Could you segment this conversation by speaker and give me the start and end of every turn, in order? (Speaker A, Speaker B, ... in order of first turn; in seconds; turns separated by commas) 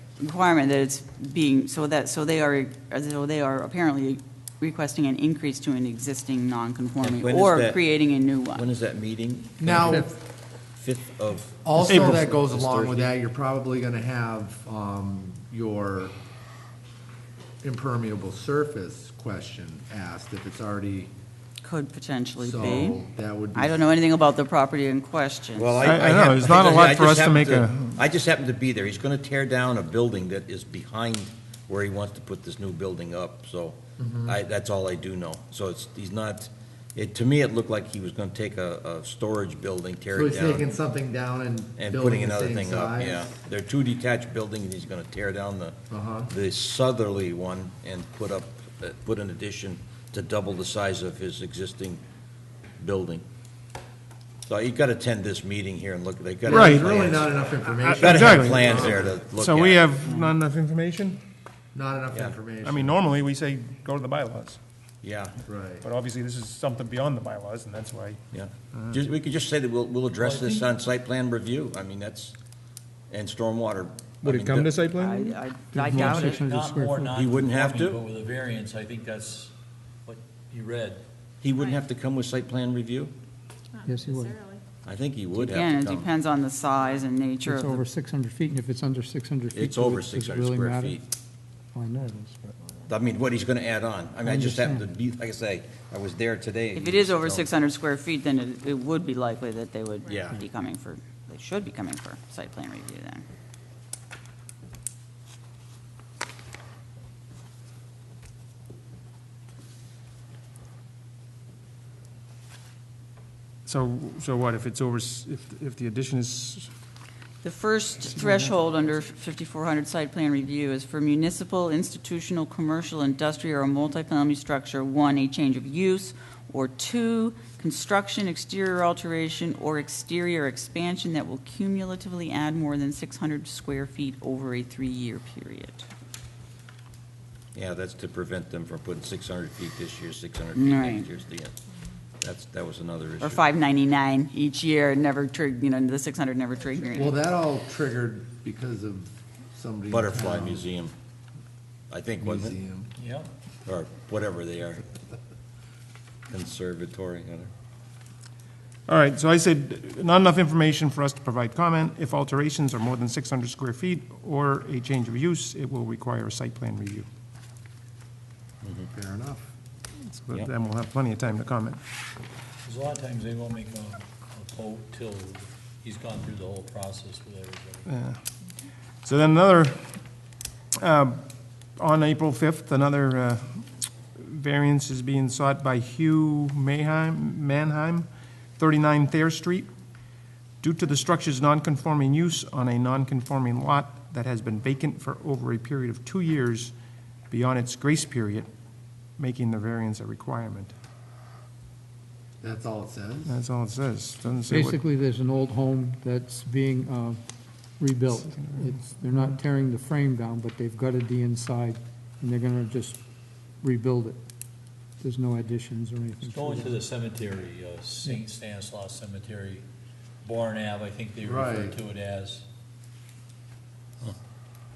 Speaker A: 0.2-8.6, Speaker B: 7.0-7.8, Speaker B: 8.6-10.1, Speaker C: 9.6-10.1, Speaker B: 10.7-13.1, Speaker C: 11.6-16.1, Speaker D: 11.8-12.3, Speaker C: 17.6-21.1, Speaker A: 21.6-23.0, Speaker C: 22.4-23.8, Speaker A: 23.6-26.0, Speaker B: 25.6-40.7, Speaker D: 25.8-28.0, Speaker C: 34.0-34.4, Speaker C: 40.1-43.4, Speaker B: 41.8-45.8, Speaker C: 45.9-46.3, Speaker B: 46.3-52.0, Speaker B: 52.8-53.2, Speaker B: 54.5-57.4, Speaker C: 56.5-59.3, Speaker D: 56.5-56.9, Speaker D: 57.8-61.2, Speaker B: 58.0-59.9, Speaker C: 61.7-63.0, Speaker B: 62.1-62.4, Speaker D: 62.6-64.6, Speaker B: 65.0-65.4, Speaker C: 65.5-65.9, Speaker D: 65.8-69.0, Speaker B: 68.3-72.4, Speaker E: 70.2-70.7, Speaker B: 73.1-74.8, Speaker D: 74.2-75.4, Speaker A: 75.0-76.4, Speaker F: 75.7-77.2, Speaker D: 75.9-76.3, Speaker E: 76.1-79.5, Speaker B: 77.1-78.0, Speaker E: 80.0-81.0, Speaker B: 81.4-83.1, Speaker F: 83.8-84.5, Speaker B: 84.8-86.1, Speaker A: 85.3-87.9, Speaker F: 87.5-91.0, Speaker B: 89.5-91.0, Speaker F: 91.7-92.6, Speaker B: 92.9-97.5, Speaker F: 94.2-94.9, Speaker A: 96.8-103.2, Speaker B: 100.1-100.4, Speaker D: 113.7-116.7, Speaker A: 117.4-135.9, Speaker D: 118.1-118.5, Speaker B: 137.6-141.6, Speaker A: 140.6-141.1, Speaker B: 142.2-143.4, Speaker A: 143.2-147.2, Speaker C: 146.9-150.7, Speaker B: 149.9-150.9, Speaker B: 151.9-152.6, Speaker C: 152.2-152.9, Speaker E: 153.0-153.3, Speaker B: 153.7-154.9, Speaker B: 156.3-157.5, Speaker D: 158.9-167.1, Speaker C: 168.9-169.4, Speaker D: 170.1-171.8, Speaker E: 172.6-177.9, Speaker D: 177.9-178.2, Speaker D: 179.0-180.0, Speaker D: 180.8-181.2, Speaker D: 181.8-189.7, Speaker D: 190.6-196.7, Speaker D: 197.3-198.5, Speaker D: 199.2-200.7, Speaker C: 202.4-203.3, Speaker D: 203.3-204.8, Speaker F: 204.5-207.2, Speaker F: 207.8-213.0, Speaker D: 208.2-208.8, Speaker F: 213.6-214.2, Speaker F: 215.0-216.7, Speaker E: 216.2-219.7, Speaker E: 220.2-222.4, Speaker C: 221.2-221.8